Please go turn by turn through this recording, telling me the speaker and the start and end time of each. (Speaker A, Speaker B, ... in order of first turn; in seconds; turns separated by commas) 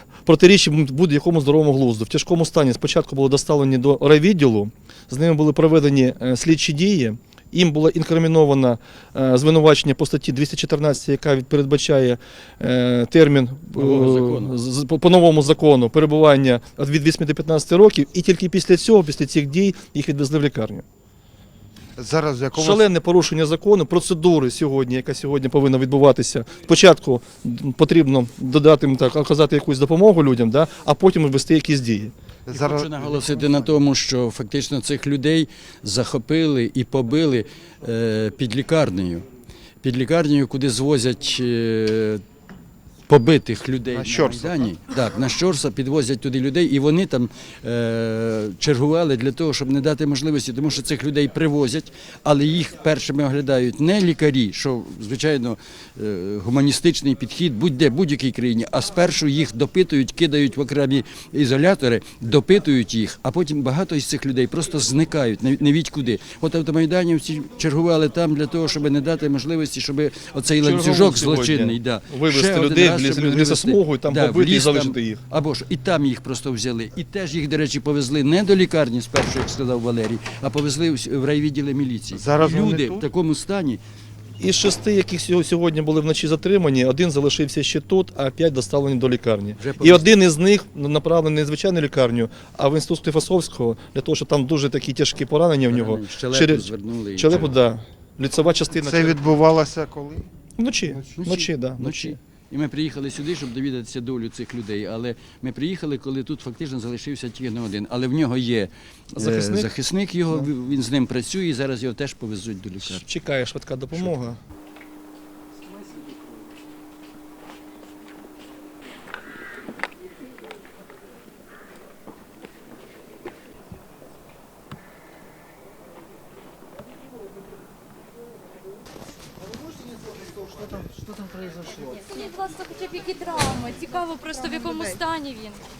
Speaker A: 0.2-20.8, Speaker B: 13.8-14.6, Speaker C: 22.0-22.9, Speaker A: 22.6-32.1, Speaker C: 32.5-33.7, Speaker B: 32.5-39.3, Speaker B: 39.8-42.2, Speaker B: 43.1-83.8, Speaker C: 43.9-44.8, Speaker A: 70.6-75.2, Speaker C: 82.1-83.0, Speaker A: 84.4-99.3, Speaker B: 89.6-90.2, Speaker B: 95.7-97.5, Speaker C: 98.7-100.3, Speaker A: 100.6-102.2, Speaker B: 101.2-113.0, Speaker A: 109.2-109.7, Speaker A: 112.8-114.4, Speaker D: 129.9-132.1, Speaker E: 132.0-135.6